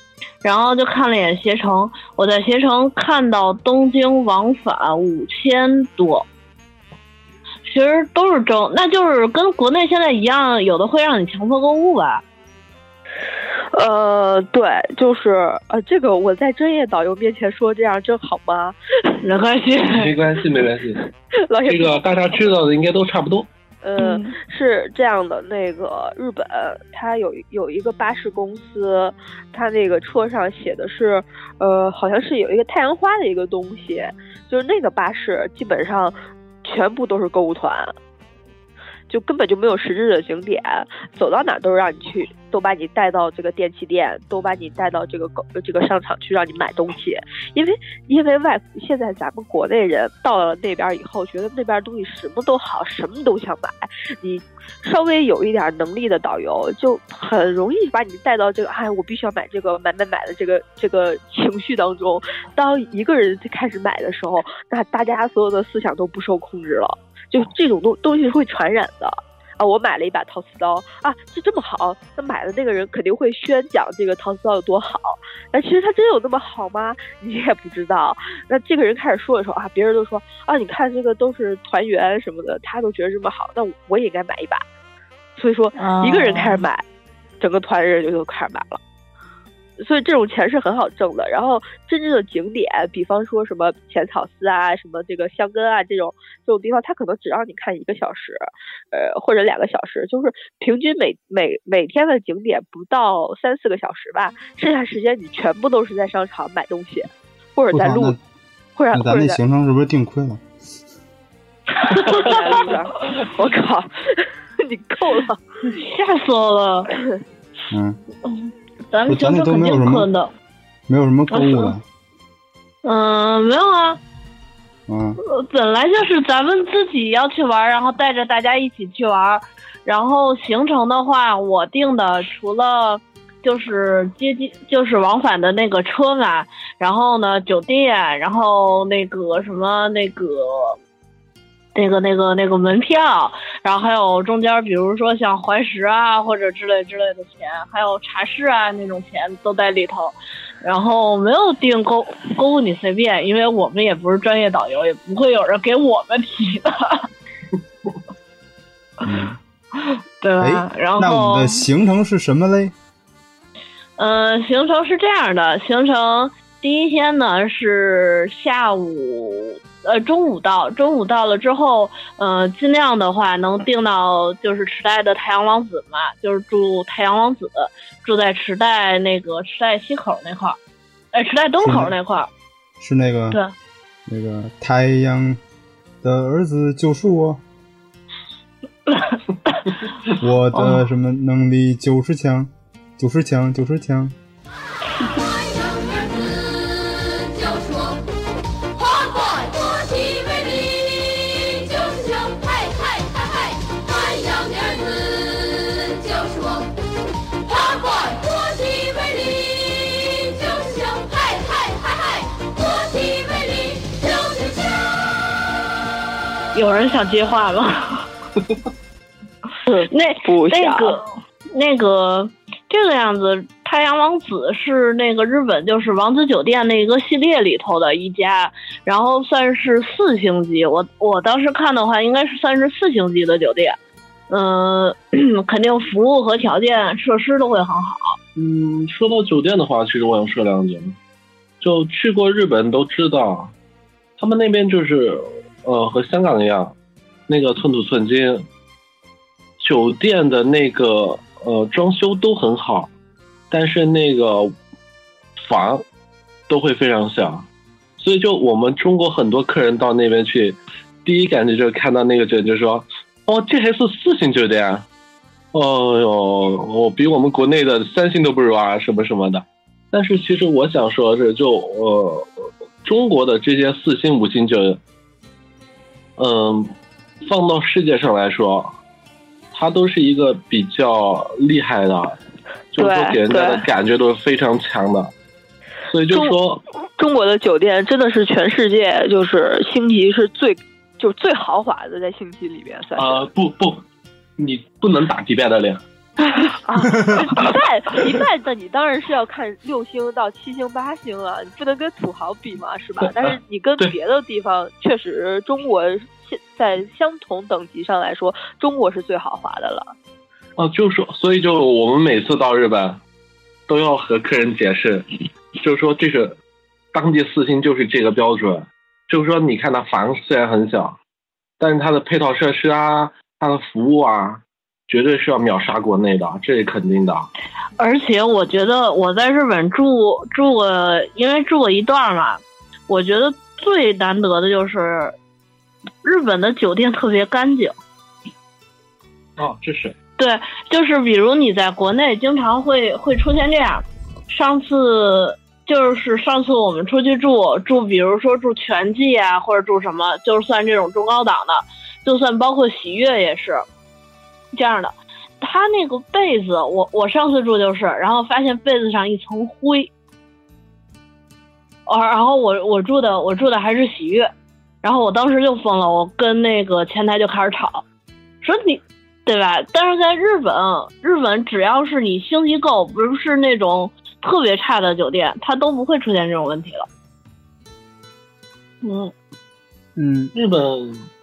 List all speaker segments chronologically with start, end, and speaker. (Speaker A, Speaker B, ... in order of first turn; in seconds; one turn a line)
Speaker A: 0.4-6.2
Speaker A: 7.6-12.2
Speaker B: 13.7-19.1
Speaker A: 19.2-20.1
Speaker C: 19.9-21.0
Speaker B: 21.5-22.5
Speaker C: 21.6-23.5
Speaker B: 23.8-37.9
Speaker A: 24.0-24.3
Speaker B: 39.1-84.6
Speaker B: 85.3-86.8
Speaker A: 85.8-86.6
Speaker B: 87.4-88.8
Speaker B: 89.8-108.2
Speaker D: 107.7-108.2
Speaker B: 108.8-109.4
Speaker D: 108.9-110.4
Speaker A: 111.9-112.3
Speaker B: 112.0-115.4
Speaker A: 115.6-116.9
Speaker D: 117.7-118.0
Speaker A: 118.3-120.3
Speaker D: 119.1-120.1
Speaker D: 120.9-121.8
Speaker A: 121.3-121.7
Speaker A: 122.8-124.0
Speaker D: 124.9-125.2
Speaker A: 125.2-140.8
Speaker A: 141.7-157.1
Speaker D: 159.0-159.4
Speaker A: 159.8-161.6
Speaker D: 160.4-162.7
Speaker A: 164.0-180.6
Speaker A: 181.1-182.3
Speaker D: 181.6-181.9
Speaker D: 182.8-183.4
Speaker D: 184.1-185.4
Speaker D: 186.0-187.4
Speaker A: 188.9-189.7
Speaker D: 190.1-194.2
Speaker A: 190.5-190.8
Speaker E: 195.2-198.0
Speaker E: 198.7-206.8
Speaker E: 207.3-215.2
Speaker A: 216.5-218.1
Speaker B: 219.7-221.0
Speaker A: 219.9-233.8
Speaker A: 234.3-238.2
Speaker C: 238.3-240.9
Speaker C: 241.6-243.5
Speaker C: 244.2-246.7
Speaker C: 247.3-248.4
Speaker C: 249.6-252.9
Speaker C: 253.5-254.5
Speaker C: 255.4-255.8
Speaker C: 256.5-264.9
Speaker C: 265.5-272.3
Speaker C: 272.8-274.8
Speaker C: 276.2-278.7
Speaker C: 279.5-282.2
Speaker C: 282.7-285.1
Speaker B: 282.8-283.7
Speaker C: 285.9-286.6
Speaker B: 287.0-293.2
Speaker C: 292.9-293.8
Speaker C: 294.4-295.8
Speaker B: 296.6-309.9
Speaker C: 296.9-297.5
Speaker C: 303.0-303.9
Speaker C: 310.6-313.0
Speaker C: 313.7-316.4
Speaker C: 316.9-321.0
Speaker C: 321.6-327.3
Speaker A: 327.8-335.1
Speaker A: 336.0-337.7
Speaker C: 339.4-339.9
Speaker A: 340.2-353.6
Speaker A: 354.5-359.9
Speaker A: 361.9-364.3
Speaker A: 364.8-367.8
Speaker A: 368.4-376.9
Speaker A: 378.8-379.1
Speaker D: 380.0-380.3
Speaker C: 380.3-381.1